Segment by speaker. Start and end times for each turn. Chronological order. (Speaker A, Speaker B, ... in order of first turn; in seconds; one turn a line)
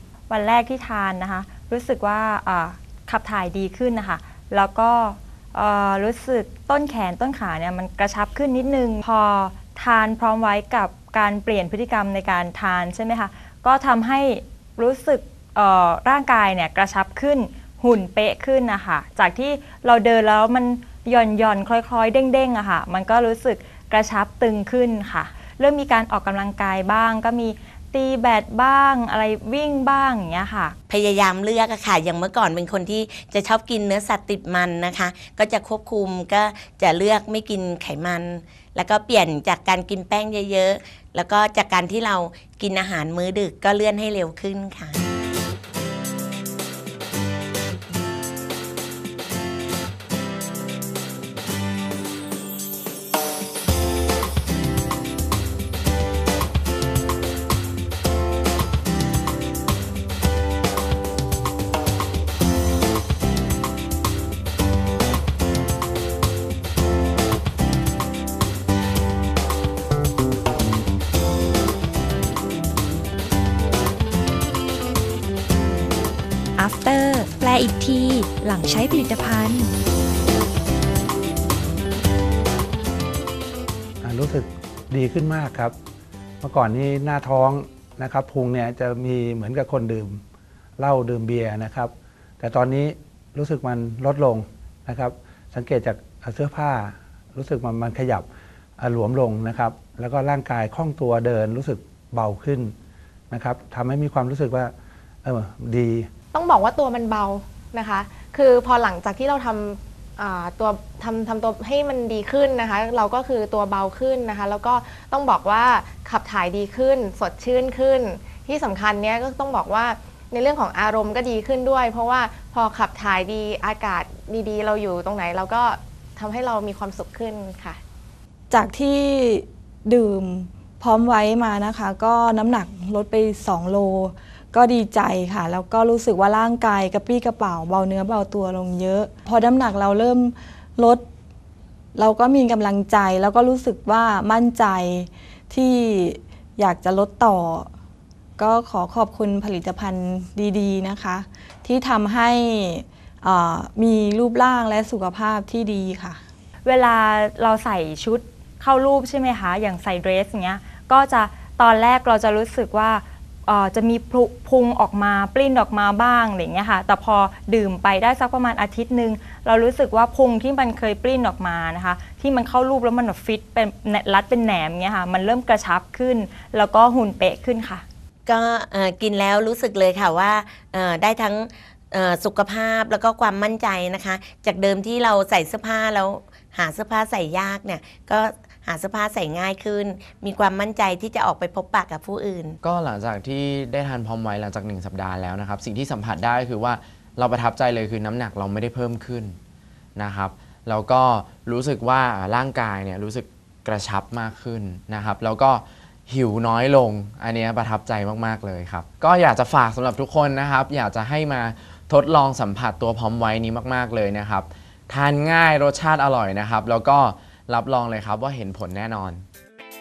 Speaker A: 0.3-30.8
Speaker B: 30.9-45.0
Speaker C: 76.5-79.7
Speaker D: 84.0-85.7
Speaker D: 86.4-90.2
Speaker D: 90.8-98.3
Speaker D: 98.8-102.7
Speaker D: 103.3-104.7
Speaker D: 105.2-106.1
Speaker E: 106.3-127.8
Speaker F: 128.5-141.0
Speaker F: 141.9-147.7
Speaker F: 148.4-156.2
Speaker A: 156.6-177.8
Speaker B: 178.3-192.6
Speaker G: 192.6-199.4
Speaker G: 199.9-219.2